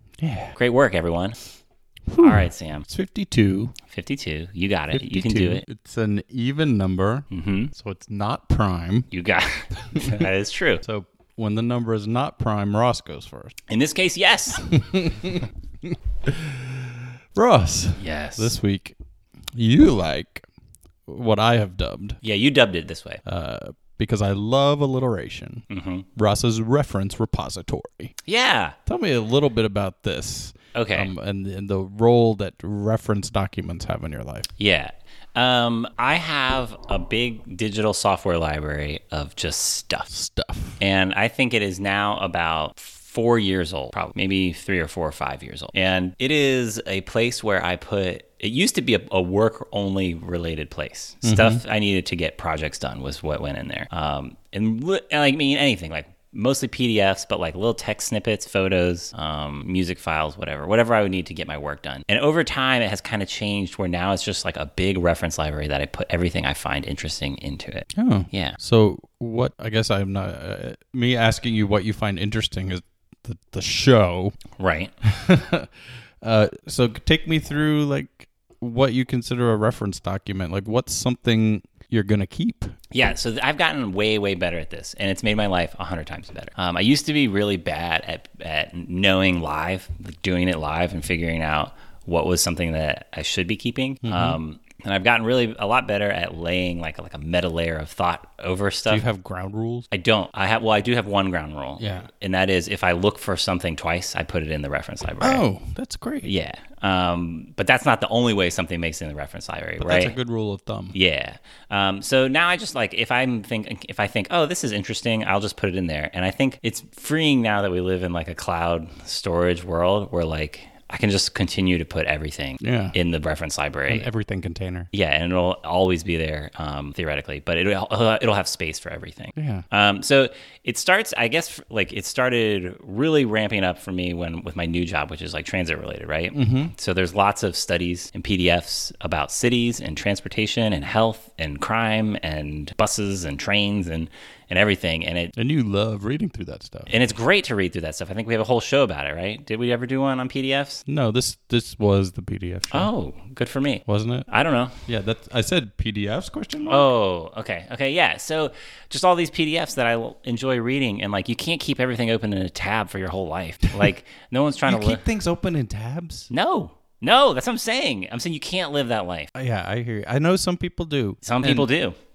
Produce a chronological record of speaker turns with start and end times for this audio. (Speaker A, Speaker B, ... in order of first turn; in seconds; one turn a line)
Speaker A: 0.2-0.5
Speaker B: 0.5-1.4
Speaker A: 2.1-3.7
Speaker B: 2.2-2.9
Speaker B: 3.9-5.6
Speaker A: 4.9-9.1
Speaker B: 7.3-7.7
Speaker B: 9.1-10.8
Speaker A: 10.8-13.5
Speaker B: 13.7-14.7
Speaker A: 14.7-18.9
Speaker B: 18.0-18.5
Speaker A: 19.6-20.4
Speaker A: 21.1-22.2
Speaker B: 22.2-23.2
Speaker A: 23.2-28.1
Speaker B: 25.7-26.1
Speaker B: 28.2-28.7
Speaker A: 28.9-34.5
Speaker B: 30.7-31.1
Speaker B: 34.6-40.1
Speaker A: 40.1-40.8
Speaker B: 40.8-68.6
Speaker A: 51.2-51.6
Speaker A: 67.9-74.4
Speaker B: 74.6-74.9
Speaker A: 75.0-75.7
Speaker A: 76.2-82.7
Speaker B: 82.9-99.0
Speaker A: 94.0-94.4
Speaker A: 98.9-99.9
Speaker B: 99.9-105.4
Speaker A: 101.8-102.1
Speaker A: 105.2-106.3
Speaker B: 106.2-110.1
Speaker A: 109.8-111.0
Speaker B: 110.9-124.1
Speaker A: 122.6-123.0
Speaker A: 123.9-124.9
Speaker B: 124.9-145.3
Speaker A: 129.3-129.6
Speaker A: 136.3-136.7
Speaker A: 145.3-146.9
Speaker B: 146.9-150.8
Speaker A: 150.8-152.9
Speaker B: 152.7-154.8
Speaker A: 153.8-154.3
Speaker A: 154.8-156.9
Speaker B: 156.7-165.0
Speaker A: 164.7-166.3
Speaker B: 166.3-169.3
Speaker A: 169.3-171.7
Speaker B: 171.2-171.9